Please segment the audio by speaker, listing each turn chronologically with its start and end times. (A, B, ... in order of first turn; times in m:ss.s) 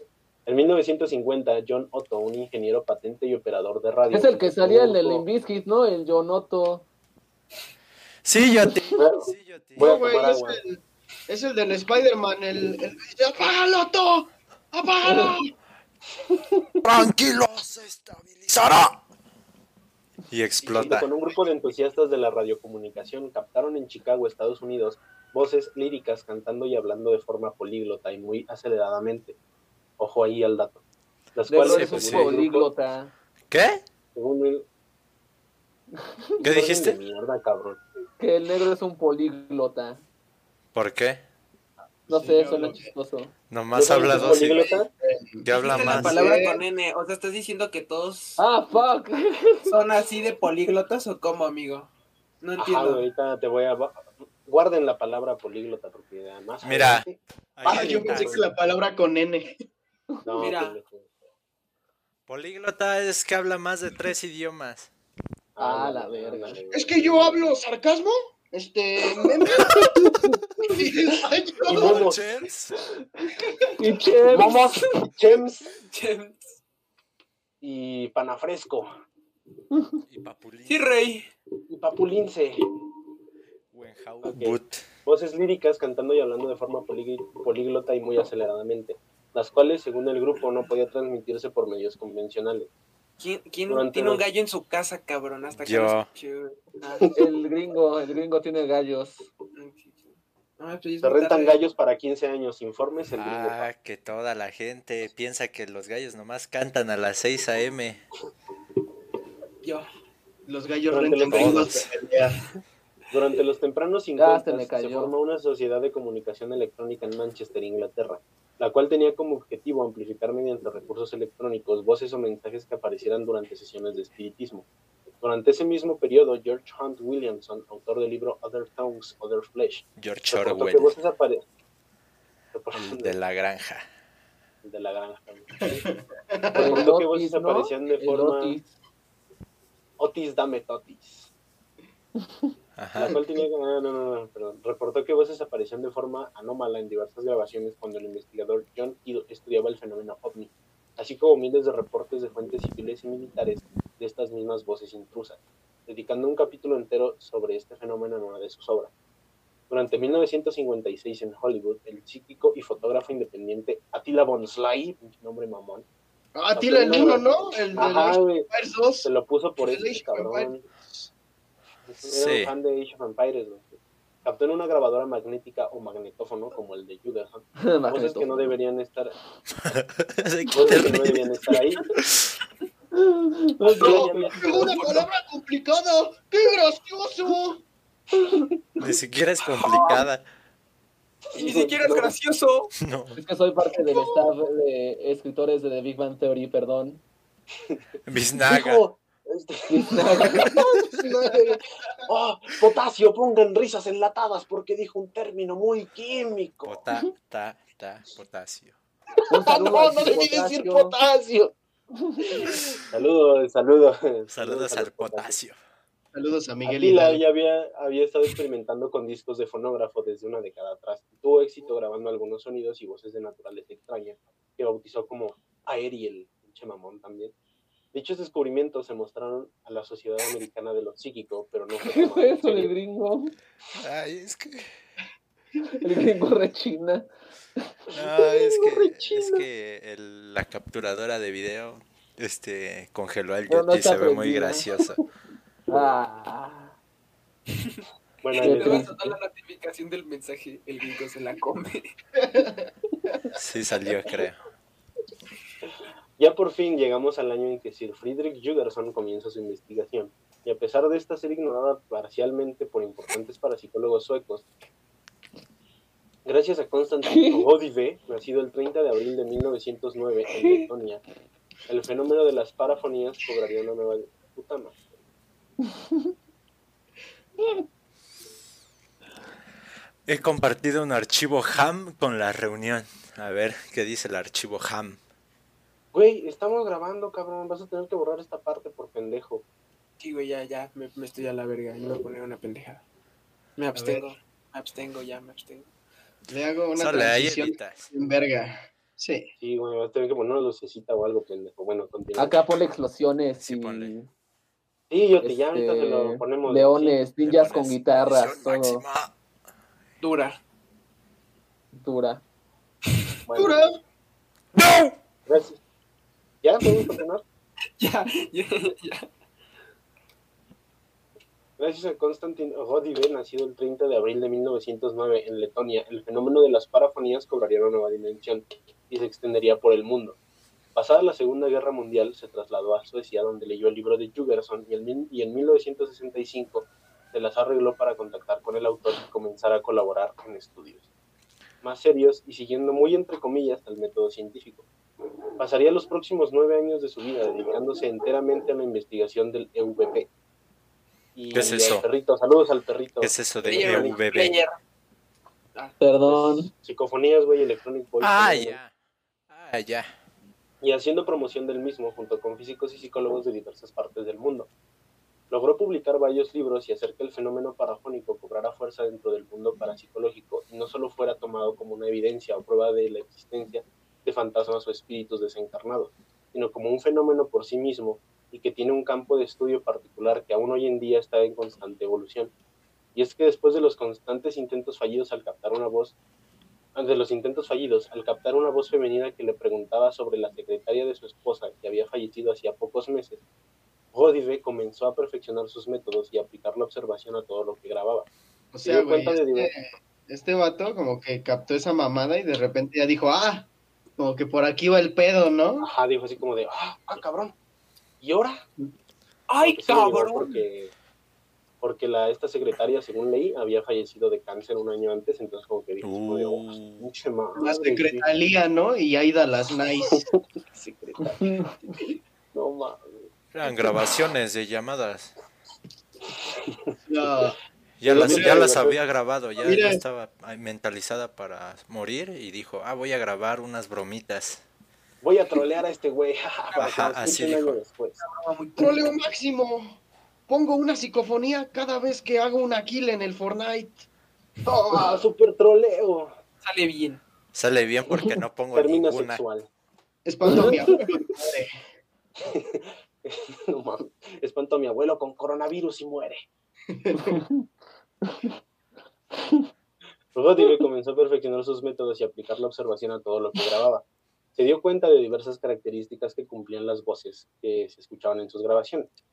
0:00.5-0:05.2 A
0:04.1-0:06.9 B
0:08.2-0:10.0 C
0:09.0-0:10.6 A
0:09.8-0:15.5 D
0:15.0-0:15.4 B
0:16.8-0:19.0 C
0:20.3-0:21.1 C
0:20.7-0:29.4 A
0:30.0-0:30.8 A
0:31.4-0:32.7 A
0:31.5-0:33.1 B
0:31.6-0:32.3 C
0:33.5-0:33.8 C
0:34.1-0:34.6 A
0:36.4-0:37.8 A
0:36.4-0:37.0 C
0:38.2-0:40.0 B
0:40.7-0:41.2 C
0:42.1-0:42.9 D
0:42.1-0:43.3 B
0:43.5-0:44.7 C
0:43.7-0:44.9 A
0:44.2-0:46.6 D
0:45.4-0:46.4 C
0:45.6-0:48.4 E
0:48.4-0:49.8 B
0:49.6-0:51.9 E
0:52.4-0:53.0 E
0:52.6-0:58.5 A
0:56.6-0:57.0 C
0:57.6-0:58.5 C
0:57.6-0:59.6 D
1:00.2-1:01.0 A
1:00.4-1:00.8 E
1:02.3-1:04.9 C
1:05.6-1:07.4 A
1:05.6-1:06.6 B
1:06.7-1:09.9 D
1:10.6-1:12.0 D
1:11.6-1:12.2 A
1:11.7-1:12.8 C
1:13.8-1:14.6 B
1:14.3-1:15.8 A
1:15.9-1:16.6 E
1:17.6-1:18.9 A
1:20.0-1:21.0 C
1:20.6-1:21.3 E
1:21.7-1:22.6 A
1:23.7-1:24.8 C
1:24.2-1:32.7 A
1:33.2-1:37.2 E
1:33.7-1:34.2 A
1:35.6-1:36.1 C
1:37.1-1:39.2 B
1:39.5-1:41.6 E
1:41.0-1:43.7 A
1:43.2-1:48.0 C
1:50.5-1:52.4 D
1:50.9-1:51.8 A
1:51.3-1:51.9 C
1:53.1-2:04.7 A
1:54.2-1:55.1 B
2:05.2-2:11.4 A
2:10.0-2:10.9 C
2:12.5-2:13.1 A
2:12.7-2:13.8 C
2:14.6-2:15.8 A
2:15.6-2:16.9 D
2:16.5-2:18.6 A
2:16.5-2:18.7 B
2:20.0-2:21.3 A
2:22.8-2:23.2 C
2:23.0-2:38.9 A
2:39.7-2:45.8 A
2:46.4-2:51.1 D
2:46.5-2:48.5 A
2:49.0-2:50.6 A
2:51.9-2:59.2 A
2:52.0-2:52.5 C
2:57.6-2:58.5 B
2:59.6-3:01.6 C
3:00.5-3:01.9 A
3:02.9-3:04.4 B
3:03.6-3:04.8 A
3:03.8-3:07.6 D
3:04.5-3:05.1 E
3:08.8-3:10.2 C
3:09.6-3:10.0 E
3:11.3-3:12.7 E
3:11.3-3:12.1 A
3:12.8-3:13.2 C
3:13.2-3:17.0 B
3:13.9-3:14.2 D
3:18.1-3:18.8 C
3:18.5-3:26.8 A
3:19.7-3:20.6 B
3:26.6-3:28.8 C
3:29.3-3:31.0 B
3:29.5-3:31.5 A
3:32.0-3:32.5 B
3:32.8-3:35.4 A
3:34.3-3:35.6 C
3:36.1-3:37.2 D
3:36.6-3:47.3 A
3:47.9-3:52.7 A
3:51.8-3:53.3 B
3:53.8-3:54.7 C
3:55.7-3:57.0 B
3:57.6-3:57.9 B
3:57.9-4:05.0 C
4:03.5-4:04.7 B
4:05.7-4:06.8 B
4:08.2-4:08.9 A
4:08.4-4:09.2 B
4:08.4-4:11.9 E
4:12.2-4:12.6 D
4:13.4-4:14.4 C
4:16.2-4:24.4 A
4:26.2-4:31.0 A
4:27.1-4:27.5 B
4:31.7-4:34.8 A
4:40.0-4:45.0 C
4:45.9-4:49.4 A
4:50.0-4:52.8 E
4:53.6-4:55.7 E
4:53.8-4:54.0 D
4:56.3-4:59.3 D
4:56.8-4:57.8 C
4:59.4-5:02.4 A
5:02.2-5:04.1 B
5:03.4-5:03.9 C
5:04.9-5:07.0 A
5:05.2-5:08.8 B
5:07.2-5:09.1 C
5:10.0-5:10.4 E
5:11.7-5:12.2 B
5:13.2-5:13.7 A
5:13.3-5:13.8 D
5:14.6-5:14.9 C
5:15.3-5:15.6 A
5:16.4-5:17.2 A
5:17.8-5:19.1 E
5:21.6-5:30.2 A
5:30.8-5:40.8 A
5:41.6-5:44.7 A
5:45.4-5:50.1 A
5:51.2-5:54.0 A
5:51.3-5:51.8 C
5:53.0-5:54.4 C
5:53.5-5:54.6 E
5:55.8-5:56.5 B
5:56.1-5:58.6 A
5:58.0-5:58.7 C
5:59.3-5:59.9 C
6:00.6-6:04.5 A
6:05.3-6:22.3 A
6:23.0-6:26.0 A
6:26.8-6:33.2 A
6:33.9-6:38.1 A
6:38.5-6:45.7 D
6:38.6-6:39.5 A
6:45.6-6:47.3 A
6:48.0-6:48.4 A
6:49.3-6:50.4 E
6:49.4-6:50.7 A
6:51.6-6:58.0 A
6:55.8-6:56.9 C
6:57.4-7:00.0 D
6:59.9-7:01.2 A
7:01.2-7:01.5 B
7:02.3-7:03.1 A
7:03.3-7:05.1 C
7:06.8-7:07.4 D
7:07.8-7:14.4 C
7:07.8-7:08.8 A
7:08.0-7:08.5 D
7:09.4-7:09.8 D
7:15.0-7:18.0 A
7:16.5-7:17.6 C
7:18.0-7:19.0 E
7:18.6-7:23.8 D
7:24.4-7:26.1 A
7:26.4-7:27.0 E
7:27.3-7:29.2 C
7:28.5-7:29.5 A
7:30.0-7:31.5 D
7:30.3-7:30.6 B
7:32.2-7:36.2 A
7:36.7-7:37.2 D
7:36.9-7:37.4 B
7:38.0-7:38.3 B
7:40.1-7:43.8 A
7:44.3-7:48.9 A